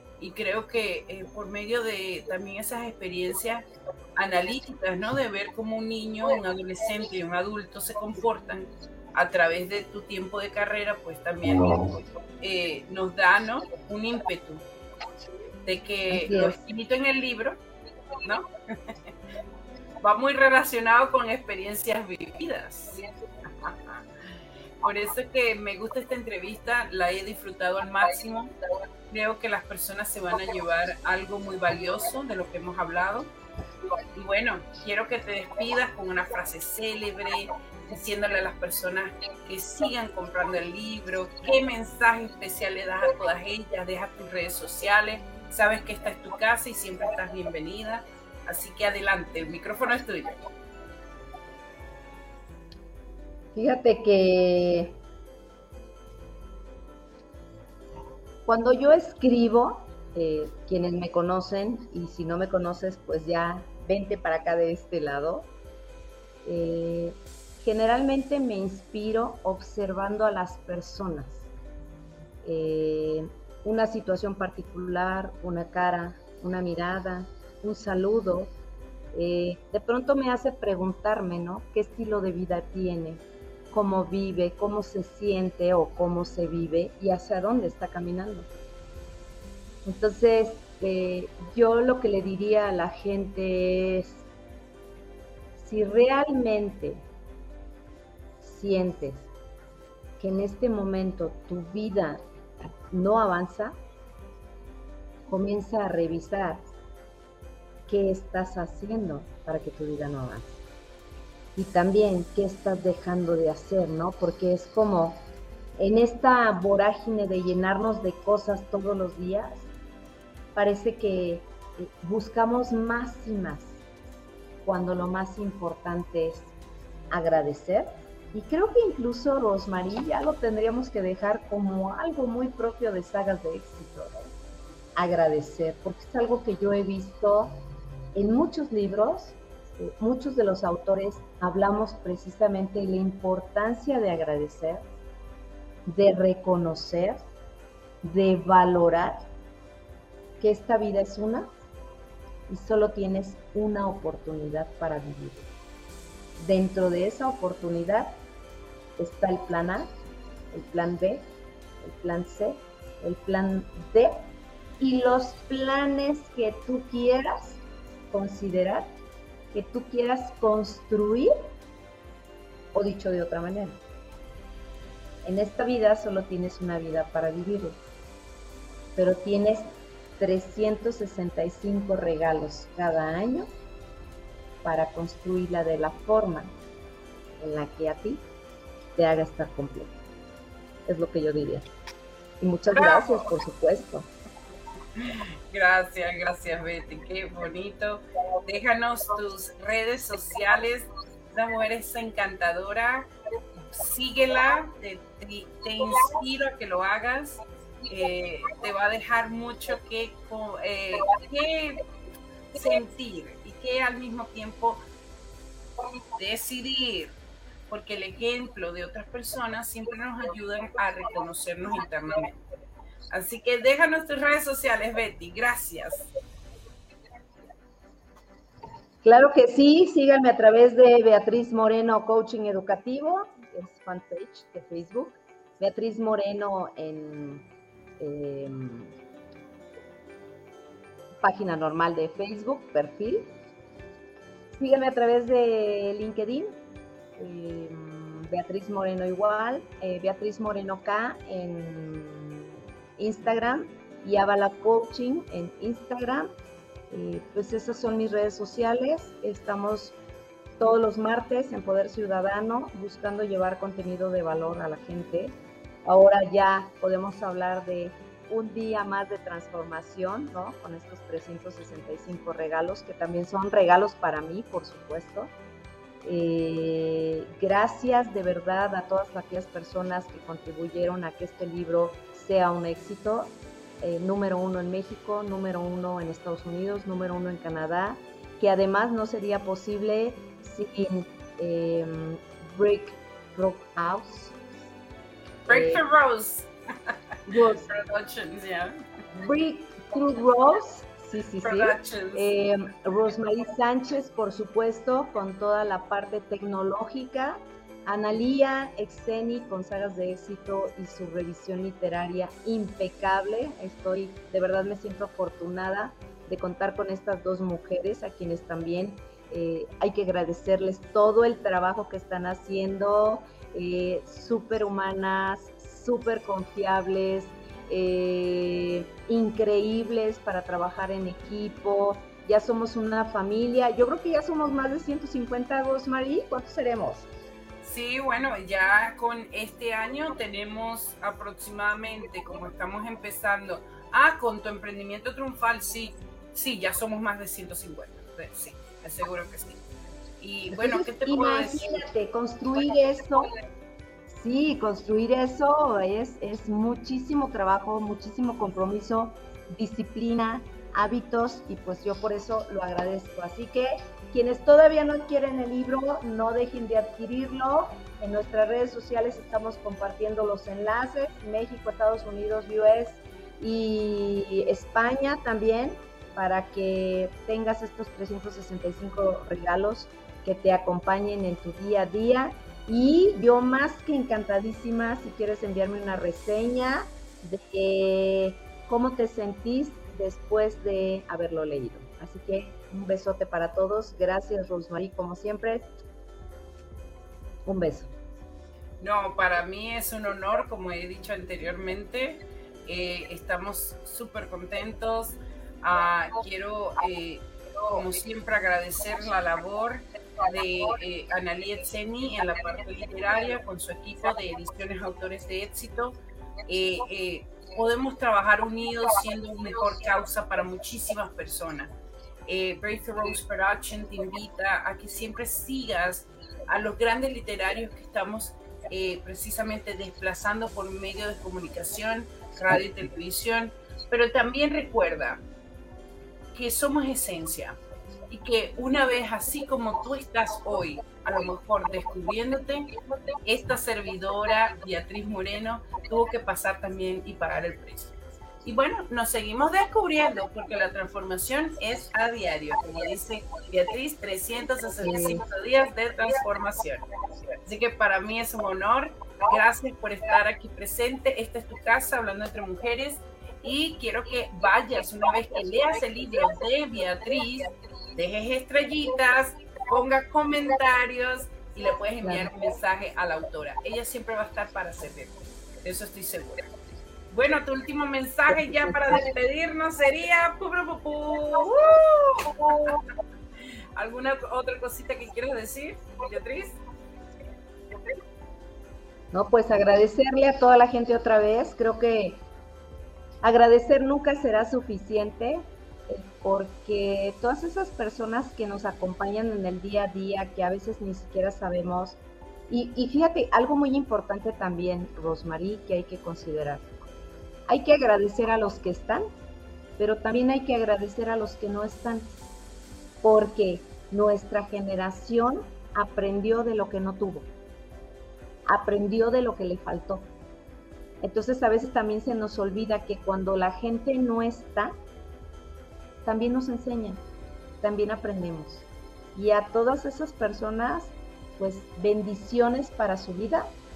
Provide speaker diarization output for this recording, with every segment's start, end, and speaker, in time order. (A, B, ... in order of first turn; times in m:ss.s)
0:00.2-0:14.6 A
0:15.6-0:17.6 A
0:16.1-0:16.6 B
0:18.2-0:19.0 A
0:20.0-0:24.0 A
0:24.8-0:28.5 A
0:29.1-0:33.3 A
0:34.1-0:50.4 A
0:53.5-0:55.0 B
0:58.4-1:05.5 B
1:06.4-1:11.5 B
1:12.4-1:18.5 B
1:19.1-1:28.5 B
1:29.8-1:34.2 B
1:35.6-1:37.0 B
1:38.4-1:39.3 B
1:40.2-1:43.8 B
1:45.3-1:46.6 B
1:47.9-1:50.6 B
1:51.6-1:55.2 B
1:55.8-1:59.7 B
2:00.5-2:03.8 B
2:04.6-2:06.5 B
2:07.1-2:14.3 B
2:15.0-2:17.6 B
2:18.1-2:24.8 B
2:25.8-2:27.2 B
2:28.0-2:29.2 B
2:30.4-2:31.5 B
2:32.5-2:35.5 B
2:36.4-2:38.2 B
2:39.0-2:39.9 B
2:40.5-2:41.3 B
2:41.8-2:44.3 B
2:44.8-2:48.9 B
2:49.5-2:51.3 B
2:52.7-2:53.8 B
2:55.2-2:57.8 B
2:59.0-3:03.5 B
3:04.6-3:06.5 B
3:07.4-3:08.2 B
3:09.0-3:10.0 B
3:10.8-3:11.7 B
3:12.4-3:14.1 B
3:12.7-3:13.3 A
3:15.0-3:23.1 A
3:23.7-3:31.8 A
3:32.5-3:34.8 A
3:36.2-3:37.2 A
3:37.7-3:42.4 A
3:43.1-3:46.1 A
3:49.0-3:57.4 B
3:58.0-3:58.9 B
4:01.2-4:03.3 B
4:04.6-4:06.5 B
4:07.2-4:16.3 B
4:16.9-4:20.0 B
4:20.6-4:35.3 B
4:36.0-4:54.3 B
4:55.5-4:55.8 B
4:55.5-4:56.9 A
4:57.3-4:57.7 B
4:57.6-4:58.8 A
4:59.1-5:37.1 B
5:01.4-5:02.3 A
5:37.6-5:49.6 A
5:50.2-5:51.8 A
5:50.5-5:53.3 B
5:54.1-6:35.7 B
6:37.4-6:37.9 B
6:38.8-7:01.7 A
7:02.3-7:15.2 A
7:16.3-7:17.6 A
7:18.1-7:22.7 A
7:23.2-7:36.8 A
7:34.8-7:35.2 B
7:37.4-7:56.4 A
7:52.0-7:52.3 B
7:57.1-8:02.8 A
7:58.3-7:59.0 B
8:03.8-8:06.6 A
8:09.1-8:12.2 B
8:13.2-8:22.0 B
8:22.5-8:26.7 B
8:27.5-8:29.1 B
8:29.8-8:32.1 B
8:33.0-8:37.3 B
8:38.4-8:40.1 B
8:41.0-8:44.7 B
8:46.0-8:47.0 B
8:47.6-8:53.5 B